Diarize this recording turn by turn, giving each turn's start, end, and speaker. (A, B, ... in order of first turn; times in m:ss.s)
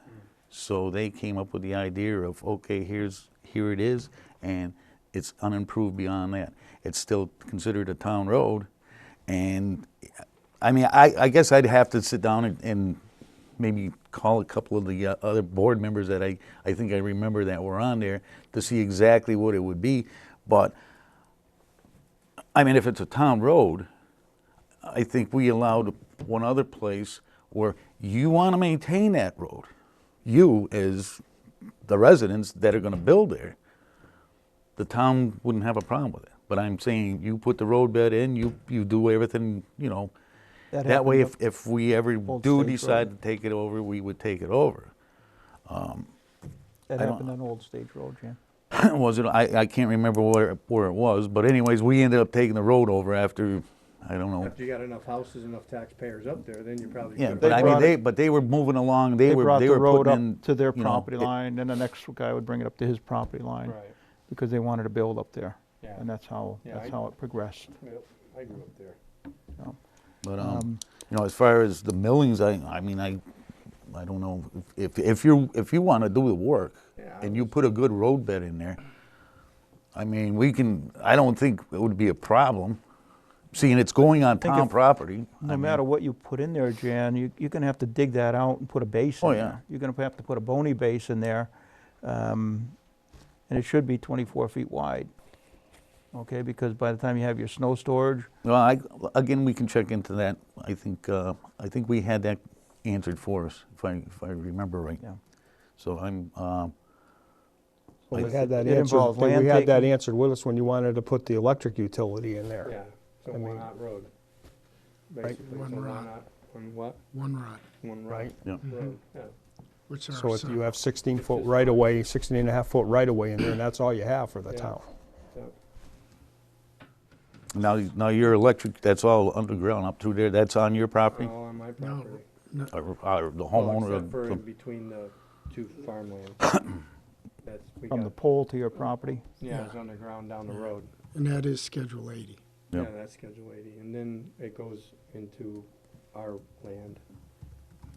0:00.5-0:08.7 A
0:09.3-0:09.9 A
0:10.6-0:13.0 A
0:13.6-0:20.7 A
0:22.5-0:23.9 A
0:24.8-0:29.7 A
0:30.2-0:31.2 A
0:31.8-0:33.6 A
0:34.8-0:40.1 A
0:40.7-0:41.3 B
0:40.8-0:44.9 A
0:42.3-0:43.1 B
0:45.7-0:46.1 A
0:46.9-0:48.4 B
0:47.0-0:47.3 A
0:48.7-0:54.5 A
0:54.4-0:57.9 C
0:57.2-1:01.3 A
0:57.4-0:57.9 B
0:59.2-1:03.8 B
1:03.6-1:03.9 C
1:04.3-1:07.7 B
1:06.6-1:07.0 C
1:07.8-1:09.0 C
1:10.2-1:13.2 A
1:10.4-1:10.8 B
1:13.9-1:18.8 A
1:17.0-1:17.6 C
1:19.9-1:22.8 A
1:23.5-1:25.8 A
1:24.4-1:24.7 B
1:25.4-1:31.5 B
1:29.2-1:29.6 A
1:32.0-1:32.8 B
1:33.5-1:35.1 B
1:36.1-1:38.3 B
1:38.4-1:45.0 A
1:45.8-1:46.7 A
1:48.1-1:52.7 D
1:48.1-1:48.6 A
1:48.6-1:49.9 B
1:52.6-1:54.1 C
1:53.3-1:53.6 D
1:55.1-1:57.0 C
1:55.4-1:56.1 E
1:57.1-1:57.6 E
1:57.8-1:59.3 C
1:58.1-1:58.3 D
1:59.9-2:00.7 E
2:00.1-2:04.9 D
2:01.1-2:01.8 C
2:04.5-2:04.8 C
2:07.5-2:11.3 A
2:11.1-2:12.2 C
2:11.8-2:12.7 E
2:12.7-2:14.4 A
2:13.5-2:16.6 C
2:17.4-2:18.1 C
2:17.9-2:19.2 B
2:19.4-2:20.9 C
2:19.5-2:19.7 E
2:21.1-2:22.4 E
2:22.7-2:27.0 C